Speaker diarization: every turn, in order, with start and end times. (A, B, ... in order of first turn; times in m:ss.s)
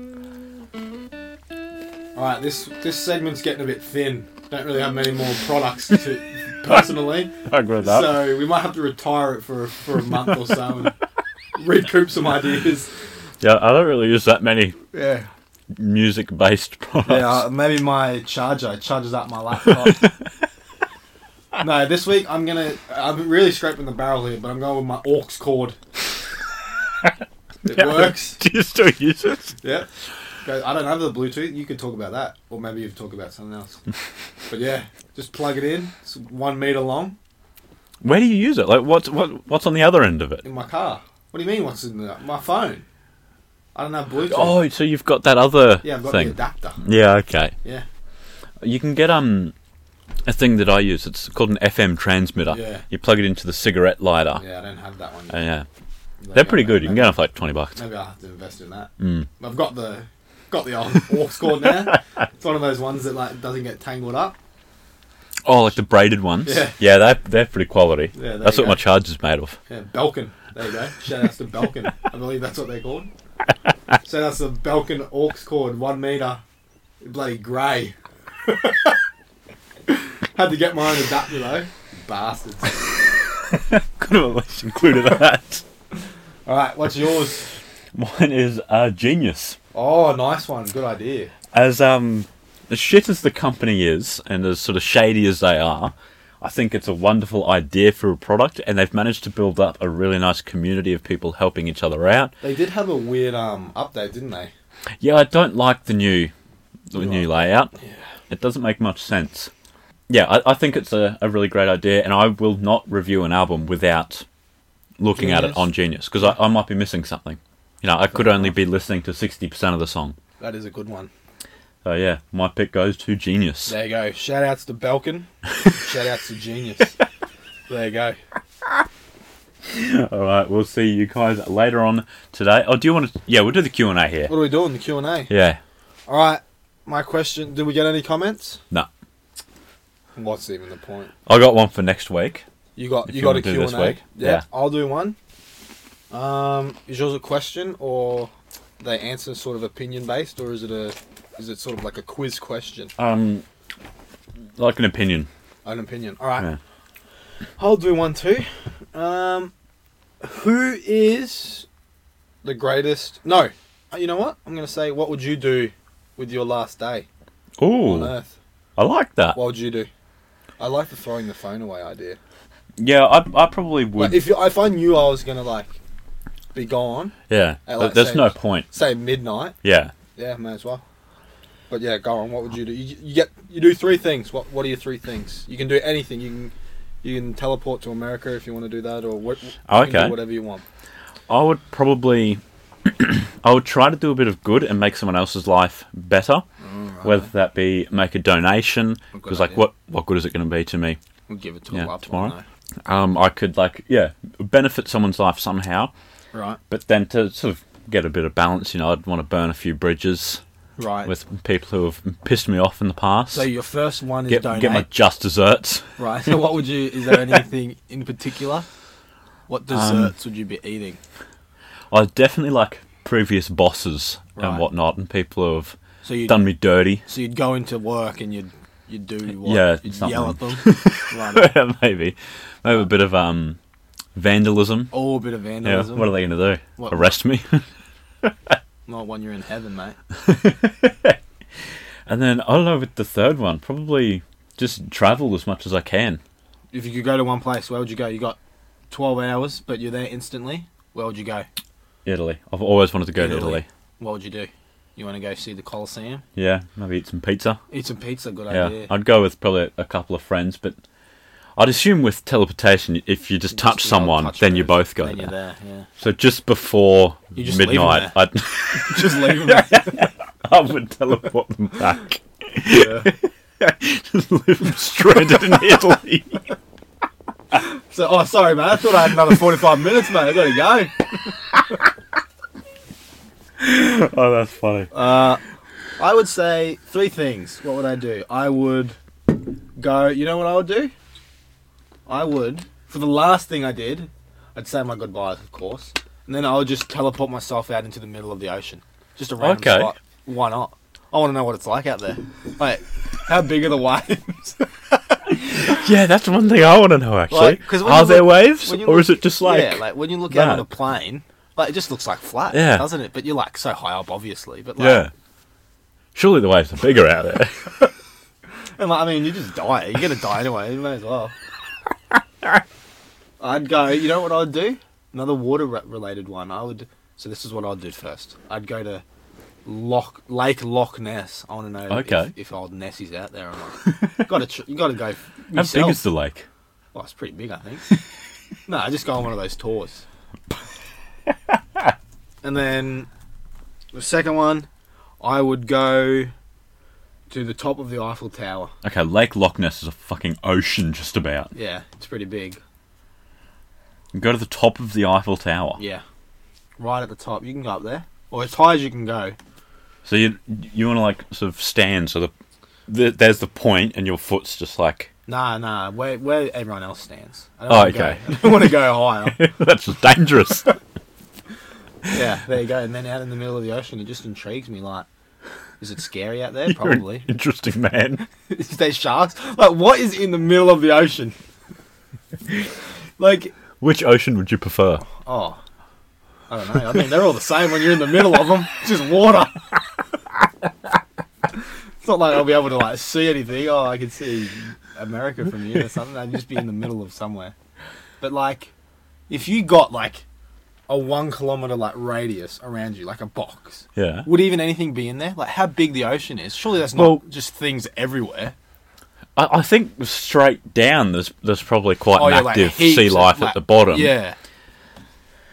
0:02.2-0:10.9 A
0:07.5-0:08.1 B
0:11.6-0:12.9 A
0:13.4-0:14.8 B
0:14.9-0:15.3 A
0:15.8-0:17.4 B
0:17.1-0:20.1 A
0:19.7-0:20.1 B
0:21.6-0:25.8 A
0:27.6-0:28.4 A
0:27.7-0:29.6 B
0:29.6-0:29.9 A
0:30.4-0:33.8 A
0:34.5-0:37.2 A
0:38.0-0:40.4 B
0:40.4-0:42.8 A
0:43.8-0:44.6 A
0:44.3-0:47.5 B
0:45.8-0:46.8 A
0:48.6-0:49.5 B
0:50.3-0:54.4 B
0:52.5-0:52.9 A
0:54.4-0:55.4 A
0:55.3-0:55.7 B
0:56.2-0:57.2 A
0:56.3-0:57.8 B
0:57.8-1:04.4 A
0:59.0-0:59.3 B
1:05.5-1:09.6 B
1:06.4-1:06.8 A
1:08.2-1:08.8 A
1:09.7-1:13.1 A
1:14.0-1:16.4 A
1:17.0-1:18.0 A
1:18.5-1:19.0 A
1:19.9-1:22.8 A
1:23.5-1:25.6 B
1:26.5-1:27.5 A
1:28.0-1:29.6 B
1:29.7-1:31.3 A
1:31.5-1:42.3 B
1:42.4-1:44.5 A
1:45.0-1:46.3 B
1:46.9-1:47.7 B
1:47.0-1:48.1 A
1:48.3-1:49.5 B
1:50.1-1:54.2 B
1:55.0-2:00.2 B
1:55.2-1:55.7 A
1:58.1-1:58.5 A
2:00.4-2:01.1 A
2:01.8-2:03.7 B
2:03.7-2:07.0 A
2:07.7-2:08.2 A
2:09.6-2:14.3 B
2:14.3-2:15.3 A
2:15.3-2:15.6 B
2:16.1-2:18.6 A
2:20.2-2:21.1 A
2:21.3-2:22.4 B
2:22.8-2:25.2 A
2:23.1-2:24.4 B
2:26.1-2:32.9 A
2:33.0-2:33.4 B
2:34.6-2:35.3 B
2:35.6-2:36.5 A
2:37.6-2:39.5 A
2:40.2-2:41.7 A
2:42.4-2:47.1 A
2:47.6-2:48.1 B
2:47.8-2:48.4 A
2:48.8-2:49.4 B
2:49.4-2:49.9 A
2:50.6-2:52.2 A
2:52.8-2:54.2 B
2:54.0-2:55.8 A
2:56.6-2:57.1 A
2:57.3-2:58.7 B
2:57.7-2:59.6 A
2:59.6-2:59.9 B
3:00.2-3:00.8 A
3:01.7-3:10.6 A
3:09.7-3:10.2 B
3:11.3-3:16.4 B
3:16.6-3:17.3 A
3:17.0-3:21.0 B
3:19.1-3:19.6 A
3:21.3-3:22.4 A
3:21.7-3:22.3 B
3:22.9-3:25.9 B
3:26.3-3:26.6 A
3:26.7-3:30.4 B
3:30.8-3:31.1 A
3:31.1-3:33.5 B
3:33.3-3:34.9 A
3:34.3-3:35.8 B
3:36.0-3:38.7 A
3:39.5-3:41.0 A
3:39.7-3:40.1 B
3:41.9-3:47.0 B
3:44.4-3:44.6 A
3:46.0-3:46.4 A
3:47.0-3:51.5 A
3:49.4-3:53.6 B
3:54.2-3:54.9 B
3:54.9-3:56.2 A
3:55.6-3:57.6 B
3:56.8-3:57.2 A
3:58.2-3:58.6 B
3:58.9-4:00.0 A
4:00.2-4:01.2 B
4:02.1-4:06.2 B
4:06.7-4:08.4 A
4:08.9-4:11.5 A
4:12.0-4:13.7 B
4:13.2-4:16.2 A
4:16.4-4:17.6 B
4:17.7-4:18.9 A
4:18.5-4:20.8 B
4:21.6-4:25.3 B
4:23.5-4:25.9 A
4:26.0-4:36.5 B
4:27.4-4:28.2 A
4:28.7-4:30.1 A
4:32.8-4:33.1 A
4:37.5-4:41.2 A
4:43.6-4:45.2 B
4:44.9-4:45.4 A
4:46.0-4:49.0 A
4:49.8-4:50.9 A
4:52.1-5:05.2 A
4:59.4-4:59.9 B
5:05.3-5:10.7 B
5:07.3-5:15.1 A
5:12.5-5:12.9 B
5:14.8-5:15.1 B
5:16.2-5:17.7 B
5:18.8-5:21.3 A
5:23.4-5:29.0 A
5:29.6-5:36.0 A
5:31.9-5:32.3 B
5:35.5-5:36.5 B
5:36.9-5:37.9 A
5:38.7-5:40.0 A
5:42.4-5:43.1 A
5:43.9-5:44.7 A
5:45.2-5:46.3 A
5:47.3-5:48.7 A
5:48.8-5:51.5 B
5:51.5-5:52.6 A
5:54.1-5:55.8 B
5:55.8-5:56.0 A
5:56.8-5:59.4 A
6:00.0-6:02.3 B
6:02.9-6:05.1 B
6:05.3-6:09.4 A
6:07.7-6:10.7 B
6:12.1-6:15.1 A
6:15.8-6:17.3 A
6:16.7-6:18.2 B
6:18.4-6:21.4 A
6:23.2-6:23.6 A
6:23.8-6:25.1 B
6:25.1-6:25.6 A
6:26.5-6:29.8 A
6:32.0-6:37.5 A
6:38.2-6:38.7 A
6:39.3-6:40.2 A
6:40.9-6:48.6 A
6:44.0-6:44.3 B
6:47.0-6:47.2 B
6:49.4-6:54.2 B
6:52.1-6:54.4 A